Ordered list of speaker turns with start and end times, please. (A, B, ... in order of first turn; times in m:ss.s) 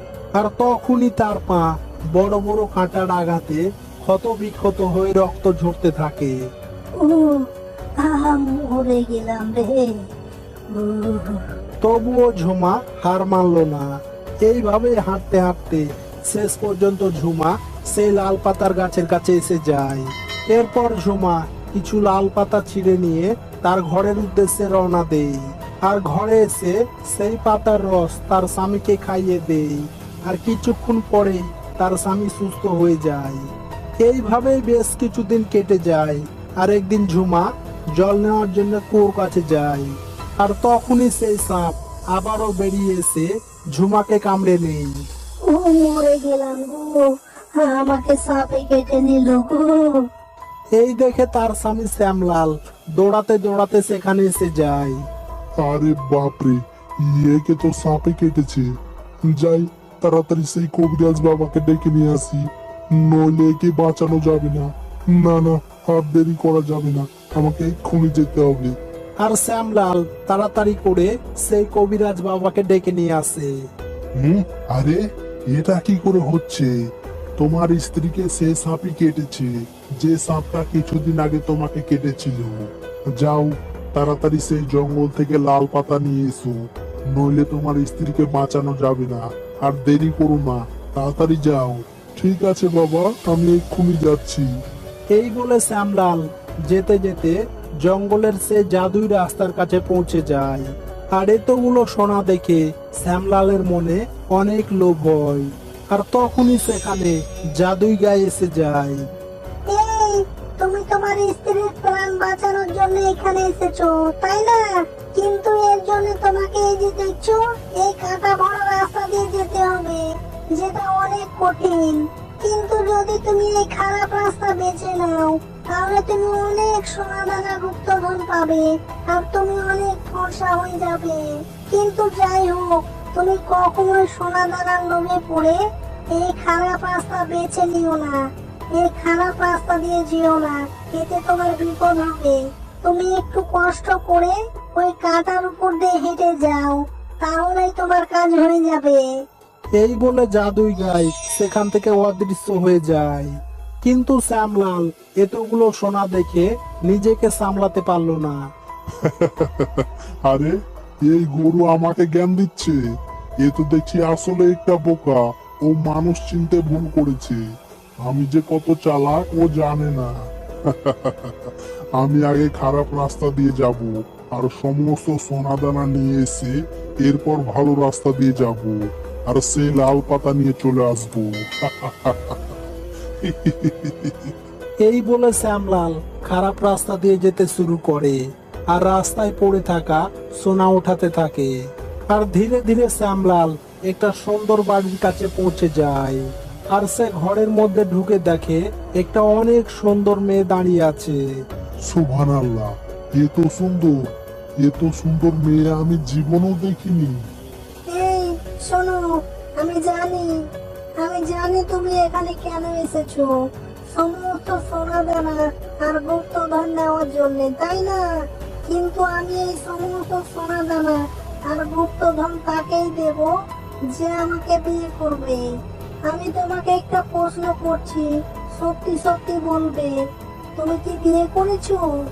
0:00.4-0:06.4 A
0:07.0-0:07.5 B
0:08.0-0:10.0 B
0:10.7-0:11.4 B
0:11.8-0:13.9 A
0:14.4-0:33.5 A
0:34.0-0:45.0 A
0:45.5-0:50.0 B
0:50.8-0:55.0 A
0:55.6-0:58.7 C
0:59.3-1:08.7 C
1:09.2-1:13.5 A
1:14.2-1:15.0 C
1:15.5-1:16.7 C
1:17.4-1:34.5 C
1:35.1-1:49.0 A
1:49.7-1:54.6 B
1:55.1-2:15.6 B
2:16.1-2:18.2 B
2:18.7-2:29.1 B
2:29.8-2:38.4 A
2:39.0-2:40.5 C
2:41.0-2:42.8 C
2:43.4-2:47.4 C
2:48.0-2:50.1 C
2:50.7-3:02.5 C
3:03.2-3:04.3 C
3:04.8-3:08.2 A
3:08.7-3:11.5 A
3:12.1-3:21.2 A
3:21.8-3:23.9 C
3:24.6-3:27.2 C
3:27.9-3:29.0 B
3:29.6-3:30.3 B
3:31.0-3:33.3 B
3:33.9-3:38.0 B
3:38.7-3:43.3 B
3:43.9-3:45.4 B
3:46.1-3:50.0 B
3:50.6-3:51.8 B